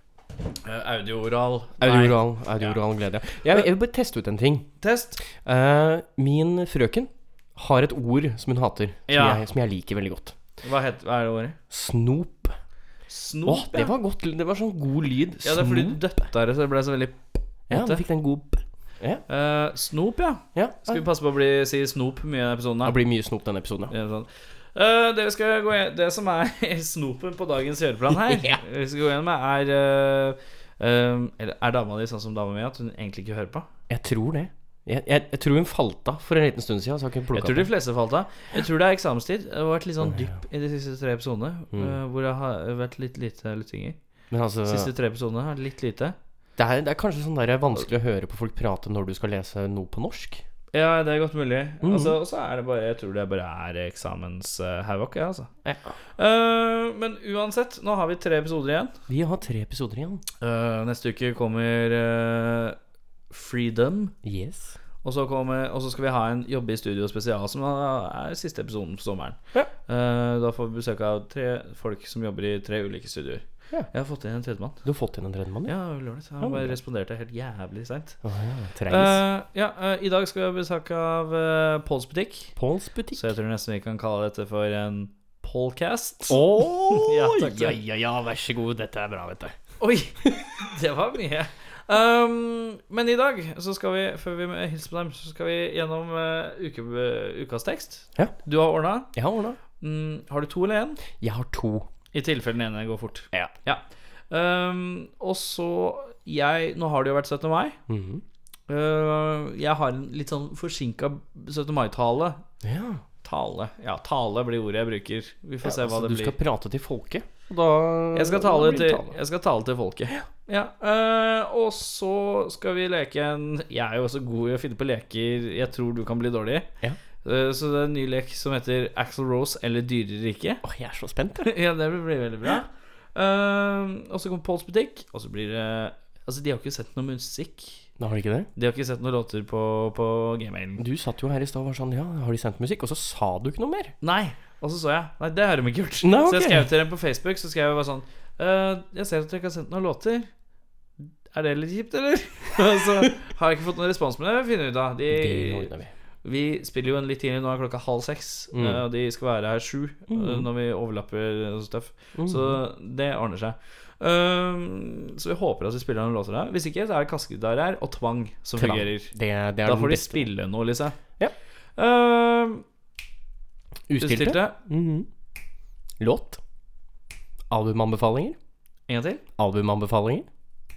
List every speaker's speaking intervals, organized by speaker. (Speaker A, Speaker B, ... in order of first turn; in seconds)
Speaker A: 0.7-2.8, 4.8-5.2, 9.1-9.4, 10.6-11.6, 13.1-13.9, 15.4-18.0, 19.3-22.9, 23.9-33.7, 37.3-44.0, 44.6-46.1, 50.7-55.5, 56.2-58.9, 60.4-62.8, 63.3-64.1, 65.0-74.8, 75.7-78.2, 78.9-82.5, 83.2-87.8, 89.8-99.1, 99.8-101.0, 102.1-107.8, 108.7-112.4, 113.2-116.3, 118.1-126.7, 127.2-130.6, 131.4-137.9, 138.6-140.8, 144.0-150.3, 151.3-155.7, 156.2-169.1, 169.7-171.0, 171.8-172.6, 174.0-174.6, 178.9-179.2
Speaker B: 1.8-4.7, 5.3-10.4, 11.7-12.6, 13.4-16.0, 17.7-19.2, 20.5-21.0, 22.9-23.9, 28.1-28.6, 33.9-37.7, 40.0-40.4, 44.3-44.9, 46.6-50.4, 51.8-52.2, 55.6-55.9, 59.1-60.2, 64.2-64.8, 74.8-75.8, 76.4-76.8, 78.2-79.2, 82.6-83.3, 86.3-89.6, 99.1-99.6, 101.2-101.9, 107.9-108.2, 112.6-113.0, 115.6-119.2, 130.6-131.5, 138.0-138.5, 140.8-143.9, 146.0-146.7, 155.1-155.9, 158.5-158.8, 160.1-160.5, 162.2-162.6, 168.6-170.3, 173.9-175.1, 176.0-176.4, 177.5-178.4, 179.4-180.3